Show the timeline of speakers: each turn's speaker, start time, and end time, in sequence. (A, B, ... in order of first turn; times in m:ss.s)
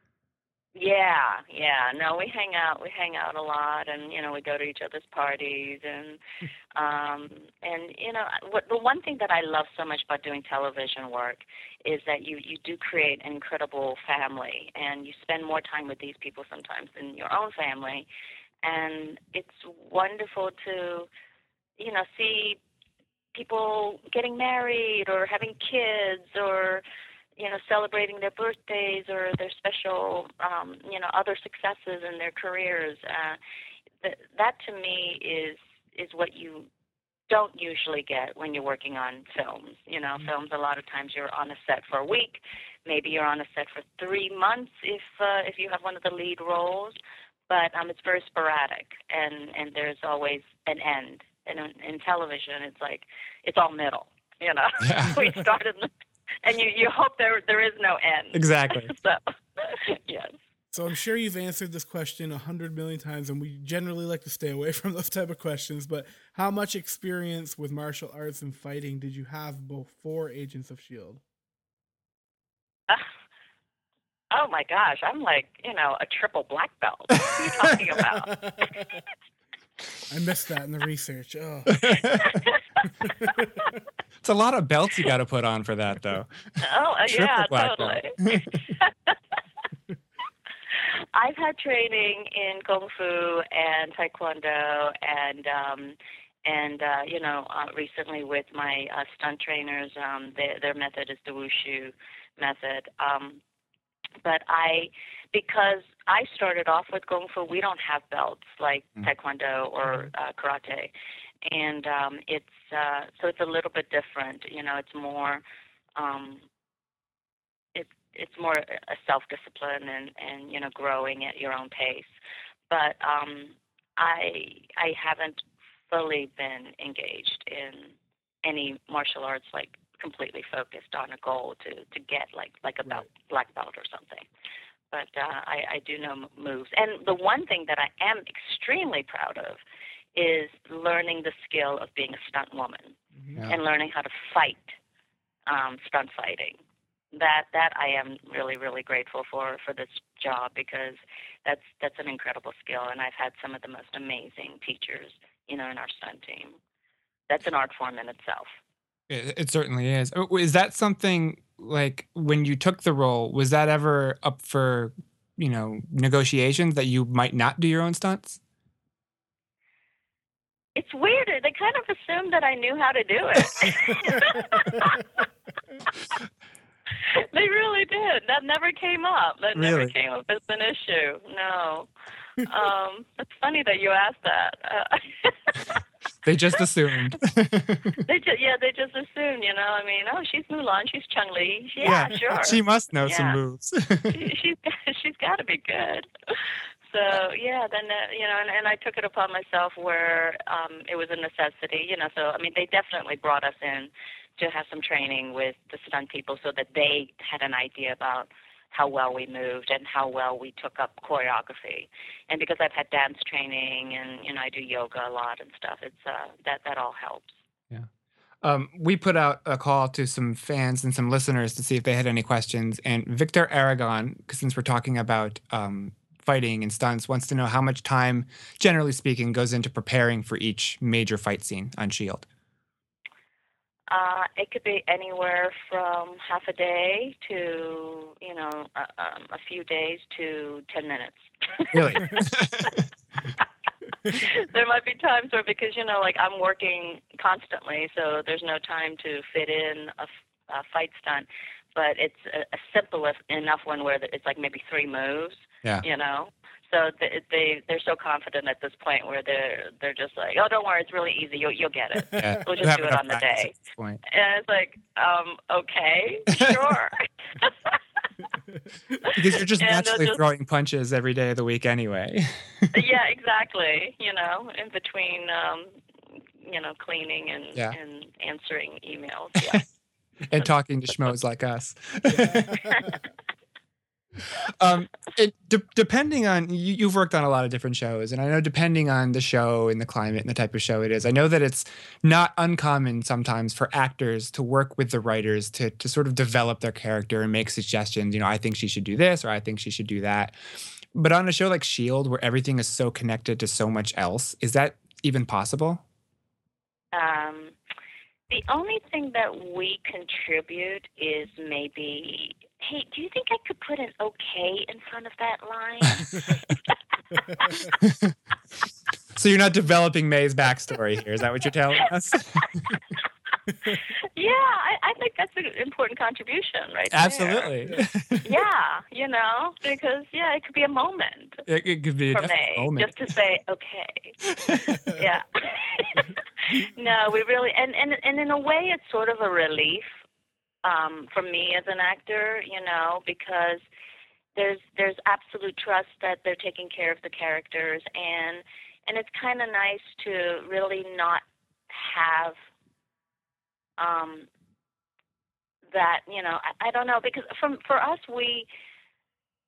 0:00.8-0:06.2 A
0:06.8-0:18.1 A
0:18.6-0:21.1 A
0:21.8-0:22.6 A
0:23.3-0:26.8 A
0:27.4-0:33.4 A
0:34.0-0:36.7 A
0:37.3-0:47.0 A
0:47.5-0:55.9 A
0:54.8-0:55.2 B
0:56.4-1:00.4 A
0:58.3-0:58.9 B
1:00.7-1:11.2 C
1:14.3-1:18.4 A
1:18.3-1:19.0 C
1:20.1-1:22.0 C
1:21.8-1:22.3 B
1:22.2-1:23.3 A
1:23.0-1:23.8 C
1:24.2-1:26.3 B
1:26.6-1:28.2 A
1:27.1-1:28.6 B
1:28.8-1:29.2 A
1:31.1-1:43.4 A
1:44.2-1:50.9 A
1:51.4-1:55.4 A
1:56.0-1:56.4 A
1:57.8-2:02.1 A
2:02.7-2:14.3 A
2:14.9-2:19.6 A
2:20.2-2:23.0 A
2:23.2-2:23.4 C
2:23.5-2:24.8 A
2:25.5-2:26.6 A
2:27.1-2:36.6 A
2:37.3-2:38.6 A
2:39.1-2:48.4 B
2:50.8-2:55.1 A
2:57.1-3:01.9 A
2:59.6-2:59.9 B
3:02.4-3:05.6 A
3:06.2-3:08.0 B
3:08.1-3:13.4 A
3:11.8-3:14.2 B
3:14.1-3:16.1 A
3:16.9-3:37.4 A
3:38.4-3:52.3 B
3:53.9-4:02.7 A
4:01.7-4:02.9 B
4:04.1-4:23.6 A
4:22.2-4:24.0 B
4:24.1-4:28.0 A
4:29.0-4:30.2 A
4:29.1-4:32.7 B
4:32.7-4:39.6 A
4:40.3-4:42.9 B
4:42.1-4:43.0 C
4:44.4-5:00.4 B
5:00.9-5:05.8 B
5:06.9-5:07.6 A
5:08.3-5:16.4 A
5:17.3-5:17.6 A
5:17.4-5:17.7 C
5:17.8-5:18.2 B
5:19.2-5:22.7 B
5:24.2-5:27.5 A
5:26.9-5:28.2 B
5:27.6-5:28.2 C
5:28.2-5:31.4 A
5:31.5-5:32.9 B
5:32.1-5:34.2 A
5:34.3-5:34.8 B
5:34.9-5:39.9 A
5:40.6-5:43.6 A
5:44.4-5:52.4 A
5:53.8-5:54.3 A
5:55.7-5:58.5 A